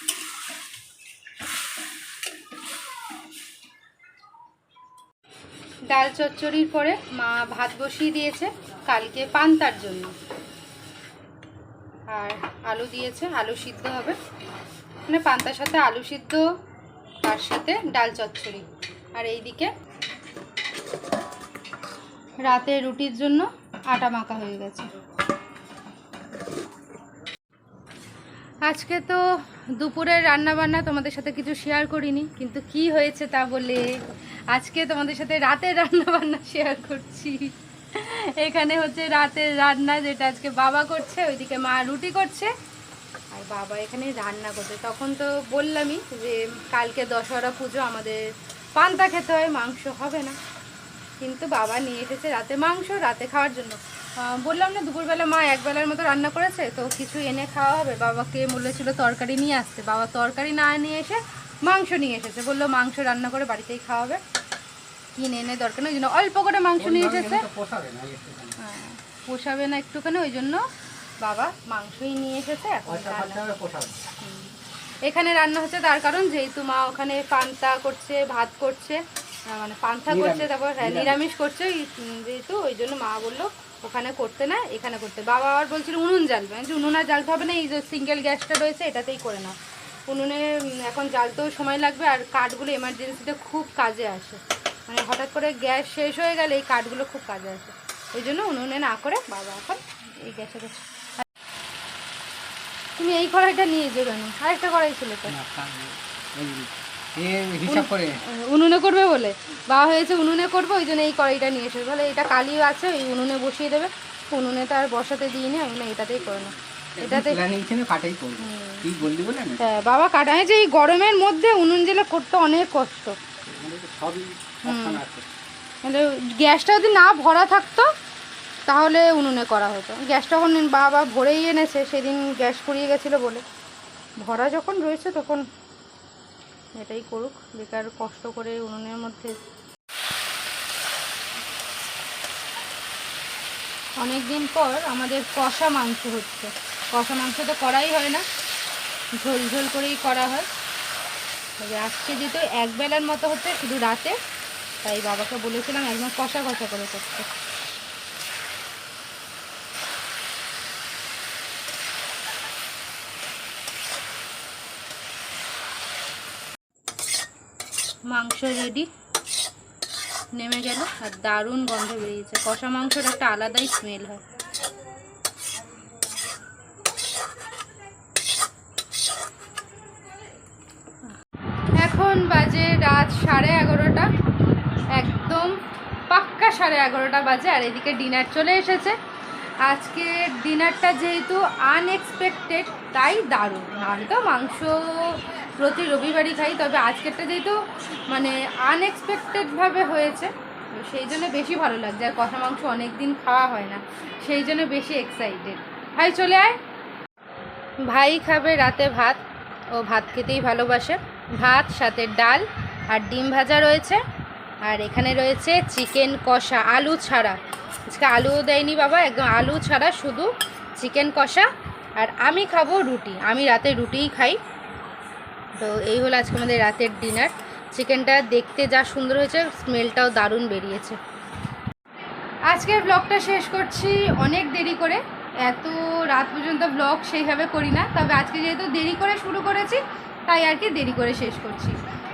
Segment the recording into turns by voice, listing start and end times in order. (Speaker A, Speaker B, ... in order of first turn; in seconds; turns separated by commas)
Speaker A: 5.9-10.1, Speaker A: 12.1-14.2, Speaker A: 15.1-16.4, Speaker A: 17.2-19.7, Speaker A: 22.4-24.9, Speaker A: 28.6-29.2, Speaker A: 29.8-33.9, Speaker A: 34.5-42.5, Speaker A: 43.3-50.4, Speaker A: 51.2-64.2, Speaker A: 65.2-67.5, Speaker B: 66.8-68.5, Speaker A: 68.6-70.6, Speaker A: 71.2-73.4, Speaker B: 72.8-74.0, Speaker A: 74.2-89.5, Speaker B: 80.1-81.2, Speaker A: 90.1-101.2, Speaker A: 103.0-105.3, Speaker B: 105.3-108.1, Speaker A: 107.7-117.4, Speaker B: 117.0-119.7, Speaker A: 118.4-118.9, Speaker A: 119.6-123.2, Speaker B: 123.4-125.3, Speaker A: 124.6-125.0, Speaker A: 125.8-127.9, Speaker A: 128.7-133.4, Speaker A: 134.2-135.4, Speaker A: 136.8-139.4, Speaker A: 144.0-148.2, Speaker A: 149.2-150.5, Speaker A: 151.6-154.2, Speaker A: 154.8-157.3, Speaker A: 168.1-168.9, Speaker A: 170.3-174.2, Speaker A: 181.8-184.1, Speaker A: 184.9-185.5, Speaker A: 186.1-189.0, Speaker A: 189.6-206.6, Speaker A: 207.8-209.2, Speaker A: 209.8-214.0, Speaker A: 214.6-224.4, Speaker A: 225.6-231.0, Speaker A: 232.5-241.8